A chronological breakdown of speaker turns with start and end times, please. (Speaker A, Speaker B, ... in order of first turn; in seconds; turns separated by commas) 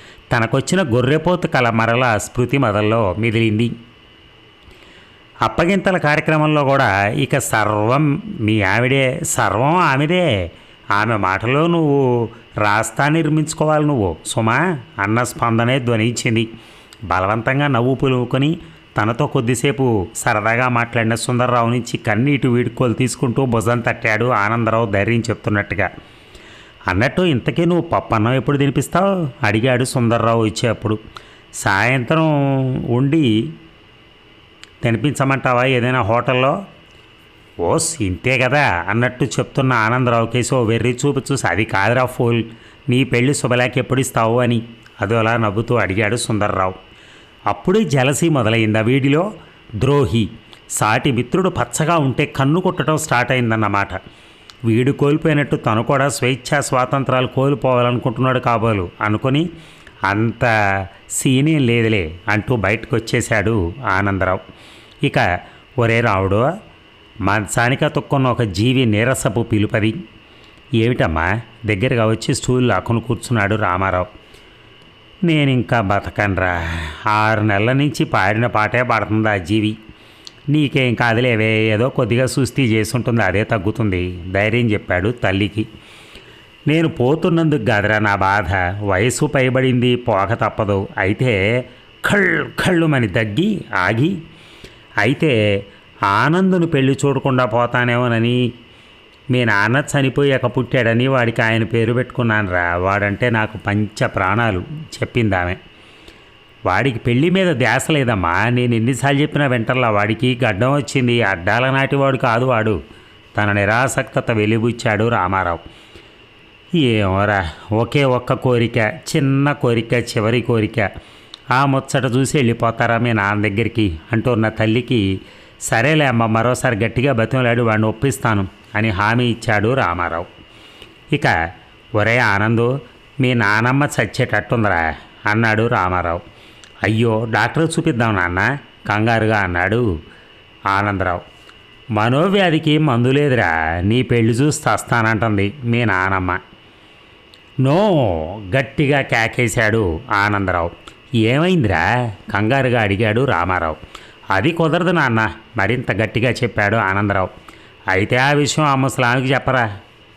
Speaker A: 0.3-3.7, Speaker A: 5.4-10.3, Speaker A: 10.9-16.5, Speaker A: 17.1-25.9, Speaker A: 26.9-31.0, Speaker A: 31.6-33.3, Speaker A: 34.8-36.6, Speaker A: 37.6-46.8, Speaker A: 47.5-49.3, Speaker A: 49.8-54.0, Speaker A: 54.7-59.5, Speaker A: 60.1-60.5, Speaker A: 61.1-64.4, Speaker A: 65.8-66.5, Speaker A: 67.3-70.0, Speaker A: 70.8-74.1, Speaker A: 75.3-79.8, Speaker A: 80.5-85.7, Speaker A: 86.7-91.4, Speaker A: 92.0-94.1, Speaker A: 95.0-95.3, Speaker A: 96.1-98.4, Speaker A: 99.3-105.6, Speaker A: 106.7-112.8, Speaker A: 113.4-115.6, Speaker A: 116.7-120.9, Speaker A: 121.5-125.0, Speaker A: 125.7-130.3, Speaker A: 132.0-136.2, Speaker A: 136.8-139.9, Speaker A: 140.7-141.2, Speaker A: 142.0-146.4, Speaker A: 147.6-150.7, Speaker A: 151.2-153.8, Speaker A: 154.3-157.3, Speaker A: 157.9-159.7